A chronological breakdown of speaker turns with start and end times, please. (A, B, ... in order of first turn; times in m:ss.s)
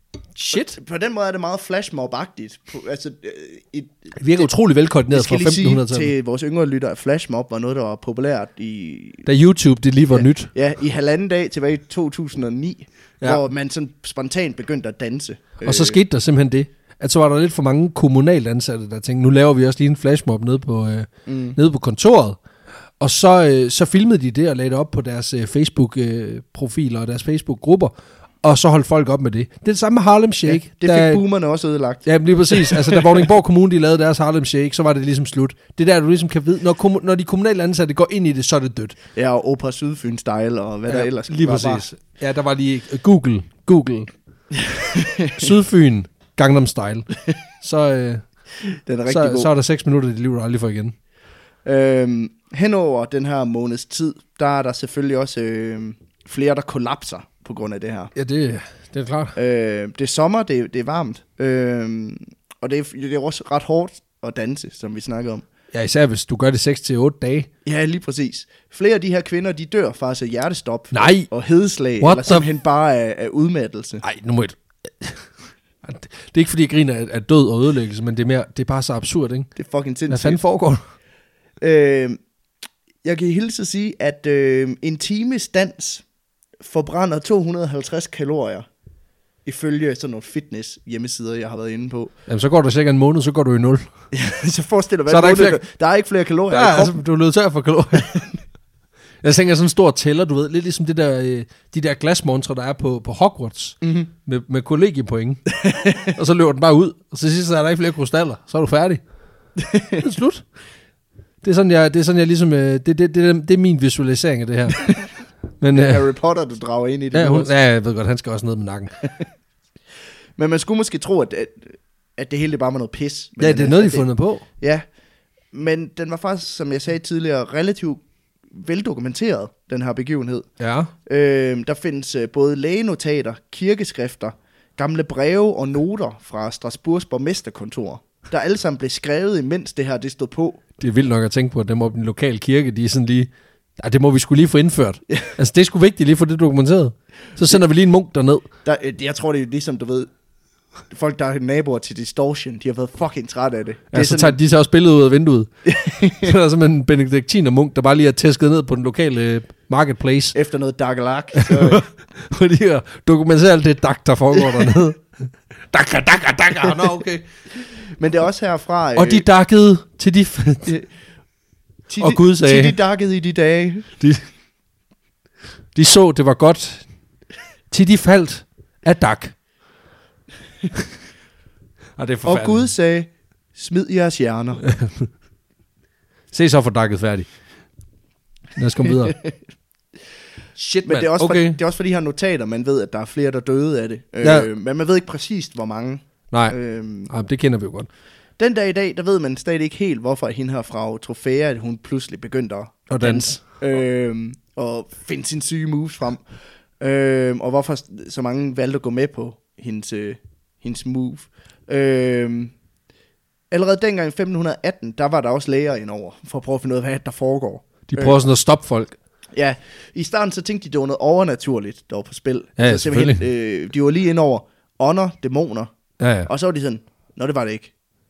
0:00.4-0:00.8 A
0:00.5-0:04.5 B
0:04.2-0:06.1 A
0:05.1-0:09.3 B
0:09.2-0:10.5 A
0:10.1-0:16.0 B
0:15.6-0:22.4 A
0:21.3-0:21.6 B
0:23.0-0:27.9 A
0:28.4-0:31.2 A
0:30.4-0:33.2 B
0:32.0-0:39.0 A
0:39.2-0:41.8 B
0:40.9-0:44.1 A
0:44.5-0:45.5 B
0:45.4-0:47.1 A
0:47.6-0:48.2 A
0:48.9-0:49.5 B
0:49.0-0:50.9 A
0:51.6-0:58.1 B
0:58.1-0:59.3 A
0:59.4-1:05.4 B
1:05.7-1:07.5 A
1:07.6-1:14.0 B
1:10.9-1:11.3 A
1:12.0-1:12.5 A
1:14.0-1:15.3 A
1:15.8-1:19.5 A
1:19.6-1:20.4 B
1:20.1-1:20.8 A
1:21.6-1:22.2 B
1:23.0-1:26.0 B
1:26.6-1:28.6 B
1:29.4-1:32.1 B
1:32.3-1:33.9 A
1:34.1-1:37.0 B
1:35.1-1:35.6 A
1:36.5-1:38.2 A
1:39.2-1:45.4 A
1:43.8-1:44.1 B
1:45.5-1:46.1 B
1:46.0-1:49.0 A
1:49.6-1:50.0 B
1:50.0-1:50.4 A
1:51.4-1:54.9 A
1:55.6-1:56.0 A
1:55.7-1:57.5 B
1:57.1-1:58.9 A
2:00.4-2:04.1 B
2:03.4-2:04.4 A
2:05.5-2:08.0 B
2:08.5-2:10.5 B
2:10.6-2:10.9 A
2:11.0-2:20.6 B
2:20.8-2:28.4 A
2:28.6-2:30.1 B
2:30.9-2:34.4 B
2:33.9-2:35.5 A
2:35.6-2:36.3 B
2:36.2-2:40.3 A
2:40.3-2:41.8 B
2:41.4-2:47.2 A
2:48.0-2:49.2 B
2:49.0-2:50.8 A
2:51.9-2:53.9 B
2:52.0-2:52.8 A
2:55.7-2:56.9 A
2:57.7-2:59.4 A
3:02.0-3:02.7 A
3:02.2-3:04.6 B
3:04.6-3:05.1 A
3:06.3-3:07.3 A
3:08.6-3:09.2 A
3:09.0-3:09.3 B
3:10.6-3:11.6 A
3:10.8-3:17.1 B
3:14.2-3:14.5 A
3:16.3-3:16.6 A
3:17.1-3:17.9 A
3:18.4-3:26.2 B
3:22.9-3:23.4 A
3:26.8-3:32.5 B
3:33.5-3:38.2 B
3:37.9-3:39.0 A
3:39.3-3:45.7 B
3:42.6-3:43.2 A
3:46.0-3:46.3 A
3:46.2-3:47.7 B